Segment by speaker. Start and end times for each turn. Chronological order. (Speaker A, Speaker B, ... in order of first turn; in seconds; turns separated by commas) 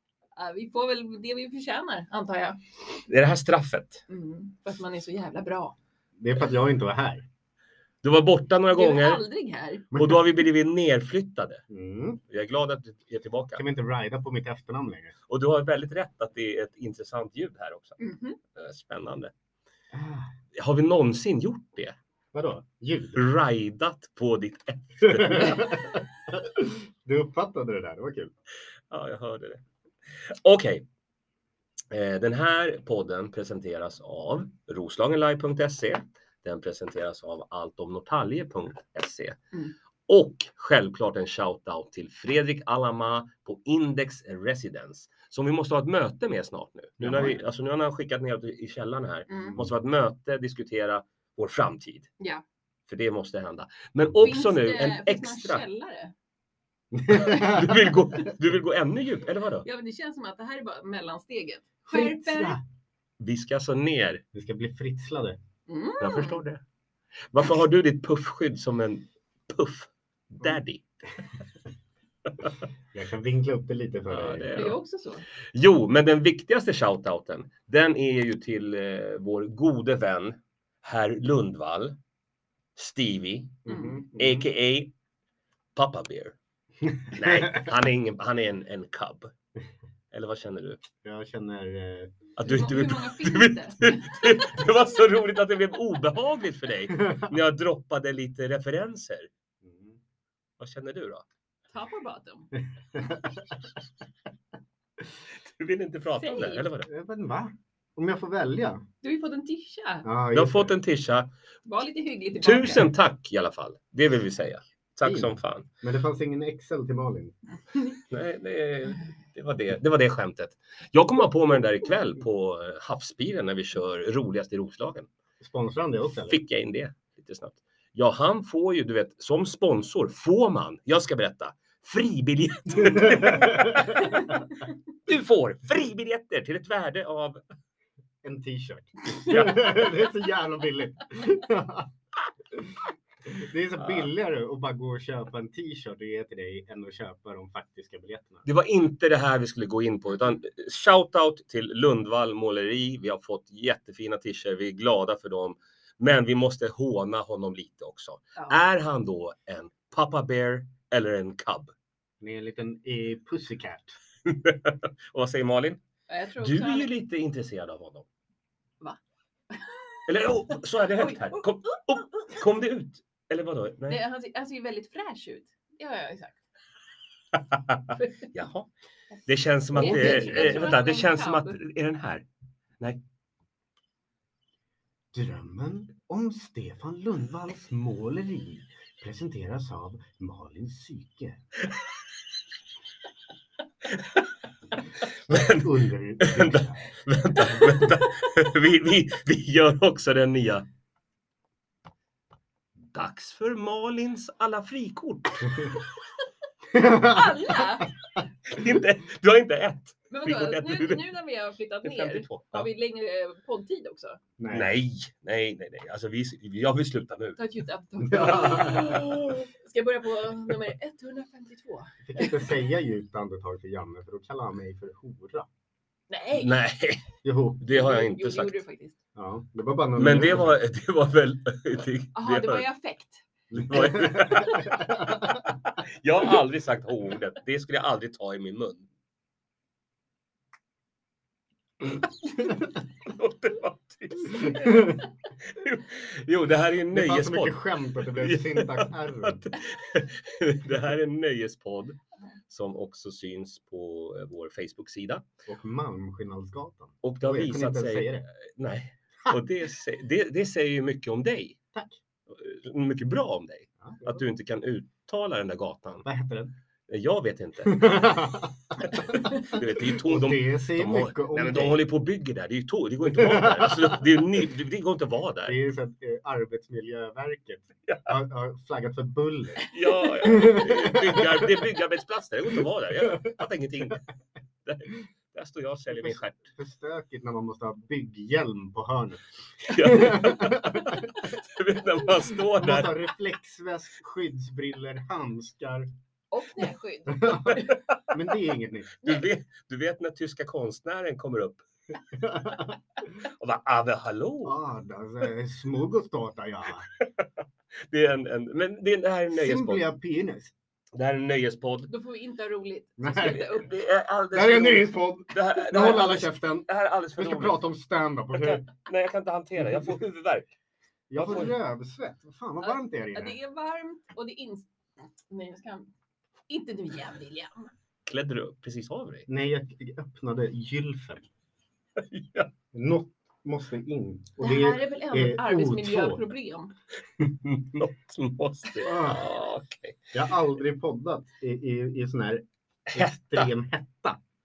Speaker A: 0.3-2.6, Speaker B: 3.1-4.0, Speaker A: 4.1-5.7, Speaker C: 6.2-7.2, Speaker B: 8.0-9.2, Speaker A: 8.7-9.9, Speaker B: 9.9-11.6, Speaker C: 9.9-10.2, Speaker C: 11.7-12.2, Speaker B: 12.3-13.6, Speaker C: 13.6-15.1, Speaker B: 15.3-18.0, Speaker A: 18.0-18.4, Speaker B: 18.5-19.3, Speaker C: 19.9-20.3, Speaker B: 20.5-21.9, Speaker C: 22.3-23.3, Speaker B: 23.1-25.8, Speaker C: 25.0-28.3, Speaker B: 28.9-29.6, Speaker B: 30.1-30.9, Speaker B: 31.9-39.4, Speaker B: 40.1-52.1, Speaker C: 47.0-47.4, Speaker A: 49.3-49.6, Speaker B: 52.9-55.6, Speaker A: 54.2-56.1, Speaker C: 56.9-57.8, Speaker B: 57.1-59.6, Speaker A: 59.6-62.6, Speaker C: 61.9-62.6, Speaker B: 63.2-64.2, Speaker C: 64.3-65.4, Speaker A: 65.7-66.4, Speaker B: 66.0-66.6, Speaker B: 67.3-70.8, Speaker B: 72.3-72.5, Speaker C: 72.9-74.6, Speaker B: 74.1-74.8, Speaker A: 74.5-75.2, Speaker B: 75.5-82.0, Speaker B: 82.8-83.6, Speaker C: 83.6-84.5, Speaker A: 83.7-84.0, Speaker B: 84.2-84.9, Speaker B: 85.7-86.3, Speaker B: 87.1-89.3, Speaker C: 87.2-87.6, Speaker B: 90.1-90.8, Speaker C: 91.0-92.2, Speaker B: 92.4-99.3, Speaker A: 92.4-94.6, Speaker C: 97.0-97.3, Speaker C: 99.6-100.0, Speaker B: 100.6-101.2, Speaker A: 101.7-102.5, Speaker C: 102.9-103.4, Speaker B: 105.4-106.9, Speaker A: 106.2-106.7, Speaker C: 106.9-108.8, Speaker A: 109.0-110.0, Speaker C: 110.0-110.7, Speaker B: 110.3-111.3, Speaker A: 111.6-112.9, Speaker B: 112.4-115.7, Speaker C: 115.0-117.3, Speaker B: 118.1-125.1, Speaker C: 125.4-126.4, Speaker B: 126.3-134.3, Speaker C: 132.8-133.9, Speaker B: 135.1-137.4, Speaker C: 138.2-141.9, Speaker B: 139.2-139.7, Speaker C: 142.5-148.4, Speaker B: 148.4-161.7, Speaker C: 162.2-164.0, Speaker B: 164.2-165.8, Speaker A: 166.1-166.9, Speaker B: 166.4-168.1, Speaker A: 169.5-170.0, Speaker B: 170.1-174.0, Speaker A: 170.9-172.3, Speaker A: 173.9-176.4, Speaker B: 177.5-178.7, Speaker A: 177.9-178.3, Speaker B: 179.3-182.2, Speaker A: 179.7-181.6, Speaker C: 179.8-180.5, Speaker C: 185.1-191.4, Speaker B: 193.9-194.2, Speaker B: 195.0-200.6, Speaker C: 195.3-196.9, Speaker B: 202.9-205.8, Speaker C: 206.7-207.4, Speaker A: 206.7-207.9, Speaker B: 208.4-211.0, Speaker A: 210.1-214.2, Speaker B: 211.8-212.7, Speaker C: 214.4-214.7, Speaker B: 214.5-217.4, Speaker A: 217.4-222.6, Speaker C: 218.0-219.0, Speaker C: 222.0-225.5, Speaker A: 226.1-226.5, Speaker B: 226.3-227.1, Speaker C: 227.2-227.6, Speaker B: 227.6-228.6, Speaker A: 227.7-229.0, Speaker C: 229.1-230.5, Speaker B: 230.0-232.6, Speaker A: 232.2-233.2, Speaker C: 233.5-235.4, Speaker B: 233.5-238.9, Speaker B: 243.0-252.0, Speaker C: 244.5-245.0, Speaker C: 246.9-249.4, Speaker B: 252.5-255.2, Speaker C: 255.5-258.3, Speaker B: 257.0-261.6, Speaker C: 261.7-262.0, Speaker B: 262.3-266.1, Speaker C: 263.8-264.2, Speaker C: 266.0-266.5, Speaker B: 266.9-268.1, Speaker C: 267.6-271.8, Speaker B: 268.8-275.6, Speaker C: 273.1-274.0, Speaker C: 275.4-279.6, Speaker B: 277.9-278.1, Speaker B: 279.7-284.0, Speaker C: 280.2-281.6, Speaker C: 283.0-283.4, Speaker B: 284.6-286.5, Speaker C: 285.9-291.1, Speaker B: 289.6-293.0, Speaker C: 292.6-295.9, Speaker A: 296.3-297.8, Speaker C: 297.1-297.6, Speaker B: 297.4-297.7, Speaker C: 298.1-299.0, Speaker B: 299.0-301.6, Speaker C: 302.1-302.8, Speaker B: 303.2-304.6, Speaker C: 304.4-306.9, Speaker B: 307.0-307.3, Speaker B: 307.9-309.8, Speaker C: 309.3-310.5, Speaker B: 310.9-311.9, Speaker A: 311.9-313.7, Speaker C: 313.0-313.4, Speaker B: 313.1-317.6, Speaker C: 314.3-318.7, Speaker B: 318.3-320.5, Speaker C: 321.1-323.4, Speaker B: 321.1-321.5, Speaker A: 322.6-324.7, Speaker A: 325.3-325.9, Speaker A: 326.5-327.7, Speaker B: 328.1-329.3, Speaker C: 329.3-331.3, Speaker B: 332.0-332.5, Speaker C: 332.7-336.2, Speaker A: 334.4-336.7, Speaker B: 337.4-340.1, Speaker C: 338.8-339.2, Speaker C: 340.1-344.2, Speaker B: 342.9-343.5